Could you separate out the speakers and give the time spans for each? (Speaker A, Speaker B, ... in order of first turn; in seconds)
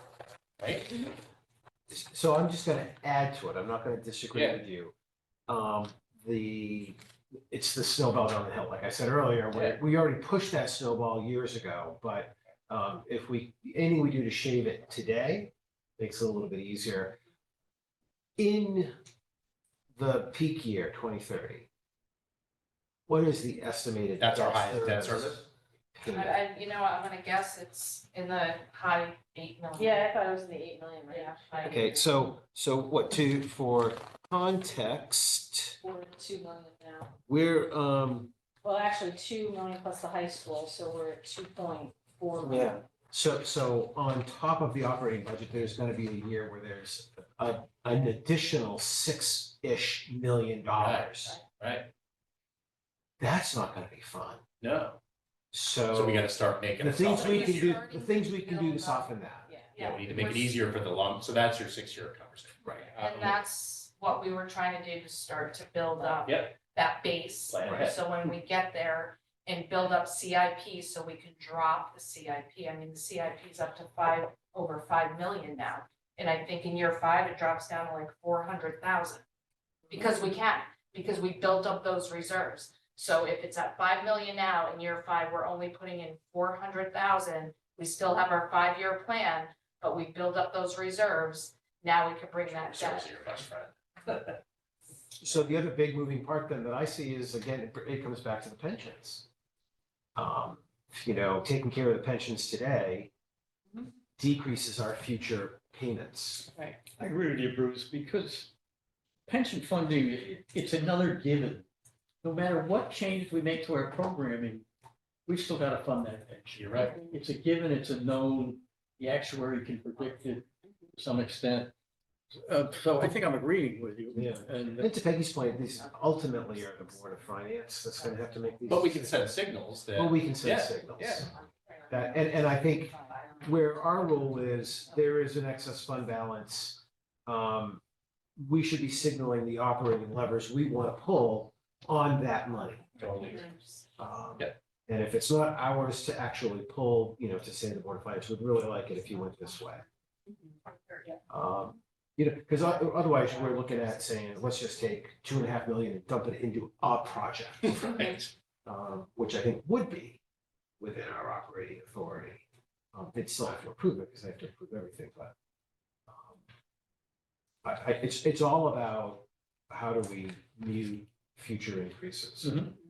Speaker A: 0.6-1.0, 4.3-4.6, 9.5-9.8, 24.2-25.4, 50.8-51.9, 54.6-55.0, 55.9-57.8, 59.8-63.4, 66.2-66.5, 67.5-68.0, 92.5-94.3, 116.5-117.0, 128.7-131.3, 143.0-143.4, 157.6-158.3
Speaker B: 1.9-4.9, 5.5-7.0, 7.5-17.2, 18.4-18.9, 19.9-21.7, 23.1-26.4, 31.7-35.8, 37.3-38.3, 42.4-51.4, 53.2-54.4, 55.5-59.5, 67.6-67.9, 95.2-99.3, 100.1-103.1, 104.2-106.5, 124.1-129.2, 129.9-131.3, 131.9-137.8, 138.4-143.1, 144.0-149.8, 151.3-158.0, 158.7-160.2, 160.8-165.3, 166.1-166.4, 167.6-172.7
Speaker C: 26.1-30.1, 31.1-31.9, 57.1-59.1, 59.7-60.6, 63.0-79.2, 79.9-93.4, 143.1-143.8, 153.1-153.7
Speaker D: 29.8-32.1, 35.8-37.2, 38.6-42.8, 59.5-59.8, 125.4-127.0, 128.0-128.8, 131.3-136.1
Speaker E: 107.0-108.5, 109.3-111.7, 112.2-114.6, 115.2-121.7, 122.3-124.9, 172.4-172.7